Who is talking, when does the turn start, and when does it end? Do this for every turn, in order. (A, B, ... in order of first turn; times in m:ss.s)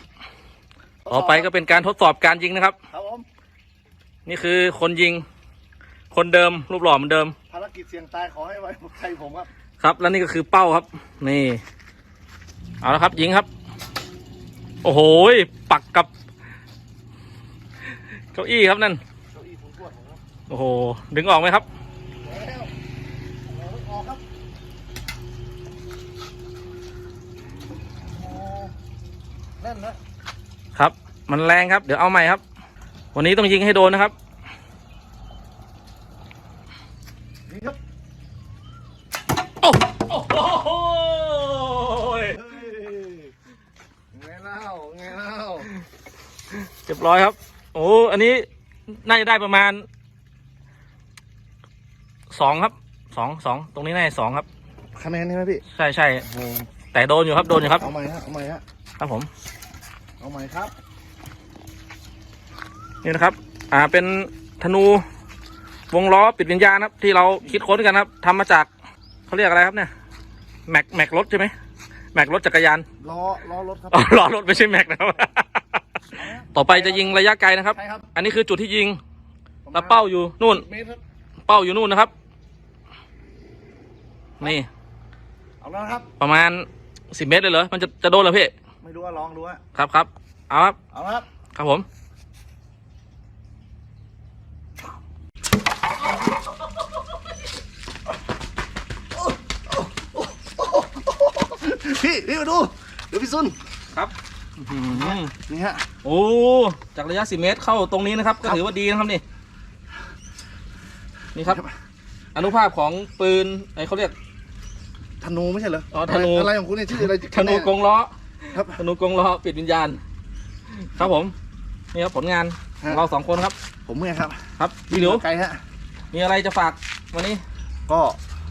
0:01.0-0:01.5 A
0:01.1-0:02.8 B
0:02.9-0:03.3 A
0:04.3-0:05.2 B
0:06.1-0:07.4 B
0:07.5-0:09.5 A
0:09.8-0:11.6 B
0:12.8-0:13.5 B
0:14.8-0:16.1 B
0:18.3-0:19.0 B
0:19.3-0:20.2 A
0:20.5-0:21.7 B
0:22.2-0:22.7 A
0:23.5-0:24.2 A
0:28.0-0:28.7 A
0:29.6-0:30.0 A
0:30.8-0:32.4 B
0:33.1-0:34.1 B
0:37.5-0:37.8 A
0:39.6-0:42.4 B
0:42.3-0:43.3 A
0:44.1-0:45.7 A
0:46.6-0:49.8 B
0:52.3-0:54.5 B
0:55.0-0:55.6 A
0:55.7-0:56.3 B
0:56.3-0:56.7 A
0:56.9-0:57.8 B
0:57.5-0:58.6 A
0:59.0-0:59.3 B
1:00.2-1:00.7 A
1:03.0-1:05.0 B
1:05.9-1:08.7 B
1:09.3-1:09.9 B
1:10.7-1:11.5 B
1:12.1-1:12.8 B
1:13.0-1:14.2 A
1:13.9-1:15.8 B
1:16.1-1:18.1 A
1:16.5-1:19.0 B
1:19.7-1:21.0 A
1:19.7-1:20.7 B
1:21.5-1:22.1 B
1:24.4-1:24.7 B
1:25.6-1:26.1 A
1:26.2-1:28.5 B
1:28.8-1:29.6 A
1:29.8-1:30.8 B
1:30.9-1:31.3 A
1:31.6-1:31.9 B
1:39.2-1:43.6 A
1:43.9-1:45.3 B
1:44.8-1:45.8 A
1:46.0-1:49.2 B
1:51.3-1:51.6 B
1:51.4-1:51.7 A
1:52.4-1:54.1 B
1:55.2-1:57.7 A
1:55.9-2:00.0 B
1:58.5-1:58.8 A
2:00.7-2:01.4 B
2:01.9-2:03.6 B
2:03.9-2:04.4 A
2:04.6-2:05.2 B
2:04.9-2:05.6 A
2:06.1-2:07.4 B
2:07.9-2:08.2 A